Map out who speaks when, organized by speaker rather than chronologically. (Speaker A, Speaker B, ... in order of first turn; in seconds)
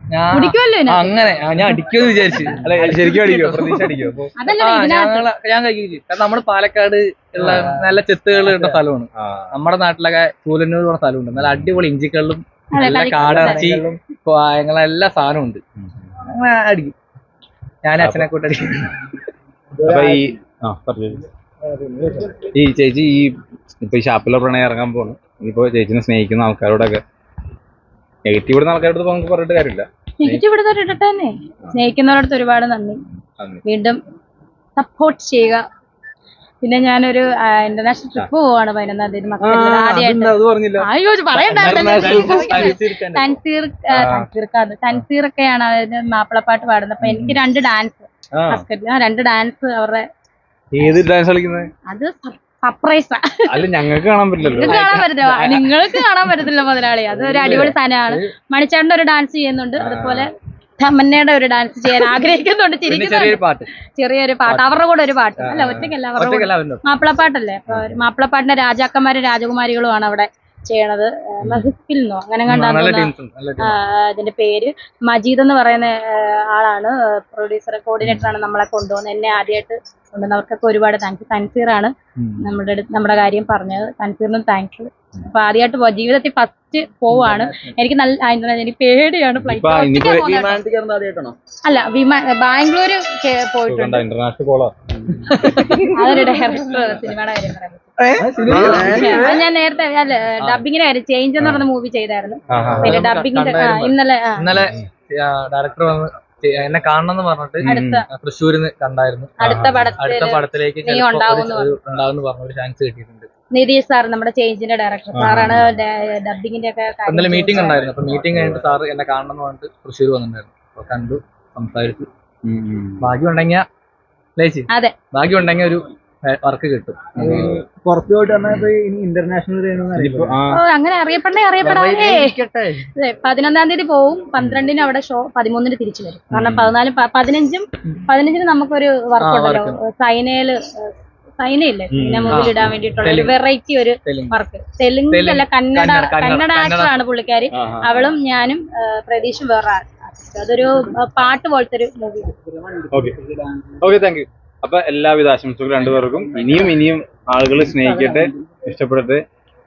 Speaker A: 0.1-15.6, 16.2-16.9, 17.8-19.0, 41.5-43.4, 54.7-56.0, 57.2-58.3, 62.9-63.7, 64.5-64.7, 66.2-66.8, 72.5-73.8, 87.1-87.7, 95.2-96.3, 98.2-99.3, 102.5-113.3, 117.1-122.1, 123.0-123.7, 124.3-127.6, 131.6-132.3, 139.2-139.8, 142.3-143.4, 144.0-144.3, 145.1-147.0
Speaker B: 0.3-1.1, 4.4-5.3, 12.7-13.7, 30.2-33.0, 33.6-34.0, 34.8-35.6, 36.6-50.0, 51.9-53.7, 54.4-63.4, 64.0-90.6, 91.6-94.0, 95.6-97.9, 98.6-104.5, 107.7-108.0, 109.4-111.8, 113.5-117.8, 124.7-124.9, 130.5-132.3, 133.0-152.3
Speaker C: 2.6-4.3, 9.2-9.5, 11.4-11.7, 15.8-16.1, 18.0-18.3, 19.8-21.3, 22.4-27.0, 28.2-30.4, 39.4-42.8, 43.9-44.3, 47.0-47.4, 48.3-48.6, 50.7-51.7, 53.5-55.0, 57.4-57.7, 59.8-60.3, 65.4-65.9, 67.7-68.0, 71.4-71.7, 78.0-78.3, 82.2-82.5, 89.4-90.4, 93.7-95.7, 98.0-99.3, 101.4-101.7, 102.5-103.0, 104.5-104.8, 107.6-108.0, 109.4-110.0, 115.1-115.8, 118.0-118.6, 122.4-123.1, 127.2-127.6, 128.4-128.7, 129.9-130.6, 136.3-136.7, 141.9-142.5, 147.5-148.0, 152.9-159.2
Speaker D: 13.2-14.0, 19.8-20.3, 21.6-22.4, 90.4-91.3, 98.5-99.2, 127.4-130.4, 131.8-132.8